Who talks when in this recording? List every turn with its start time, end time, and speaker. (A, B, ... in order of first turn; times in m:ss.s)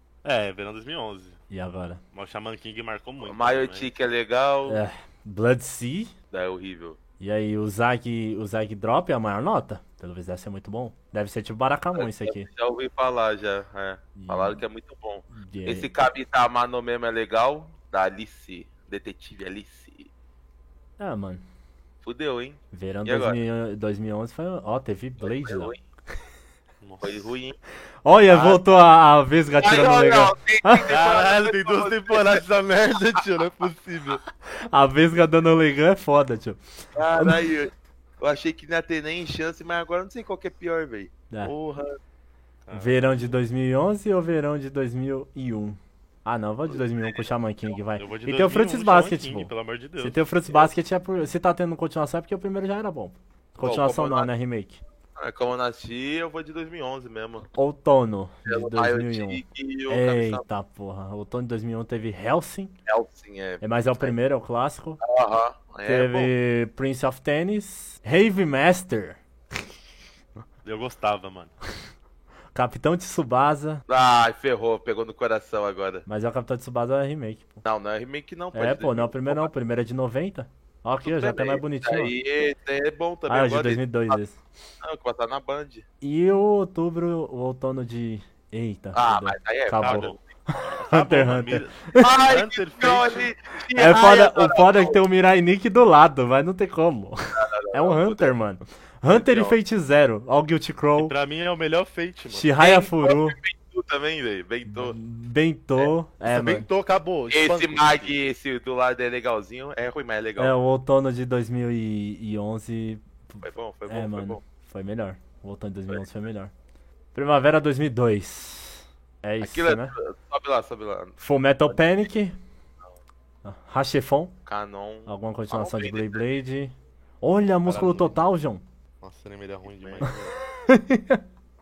0:00.2-0:01.4 A
0:01.5-0:02.0 B
0:02.1-0:03.9 A
0:03.2-0:04.8 C
0:04.6-0:06.1 B
0:06.3-0:07.0 C
0:07.2-0:12.5 B
0:11.9-0:20.1 C
0:14.2-0:14.6 B
0:15.3-0:15.9 B
0:21.0-0:21.4 B
0:22.0-0:23.4 C
0:22.7-0:25.7 B
0:25.2-0:25.8 C
0:26.8-0:27.3 A
0:27.0-0:27.6 C
0:28.0-0:30.9 B
0:28.3-0:28.6 C
0:29.6-0:32.4 C
0:30.9-0:34.2 A
0:34.7-0:36.6 B
0:37.0-0:41.1 C
0:37.1-0:37.4 B
0:41.4-0:42.0 A
0:42.7-0:43.3 A
0:42.7-0:54.8 B
0:46.7-0:47.3 C
0:48.0-0:50.2 A
0:53.6-0:54.3 C
0:55.2-0:57.5 C
0:57.5-1:02.7 B
0:58.4-1:00.4 C
1:02.9-1:04.1 C
1:03.6-1:05.0 B
1:05.0-1:06.3 C
1:05.8-1:09.2 B
1:10.6-1:11.5 A
1:12.6-1:13.8 B
1:13.9-1:16.0 C
1:16.1-1:17.6 B
1:17.6-1:19.5 C
1:18.5-1:22.1 B
1:21.0-1:24.2 C
1:23.3-1:24.4 B
1:24.8-1:25.8 C
1:26.0-1:32.1 B
1:28.9-1:30.2 C
1:29.8-1:33.3 A
1:32.0-1:35.0 C
1:33.7-1:41.1 B
1:37.4-1:38.4 C
1:39.1-1:39.6 C
1:41.0-1:42.5 A
1:42.3-1:43.4 B
1:42.6-1:45.0 C
1:44.6-1:46.7 B
1:46.2-1:48.2 A
1:47.3-1:50.5 C
1:50.4-1:56.5 B
1:53.4-1:54.4 C
1:57.1-1:59.9 B
1:59.4-2:01.1 C
2:01.2-2:02.4 B
2:03.4-2:04.3 B
2:04.4-2:06.2 C
2:05.1-2:08.6 B
2:07.6-2:08.1 A
2:09.0-2:10.3 A
2:09.8-2:10.1 C
2:10.6-2:11.2 B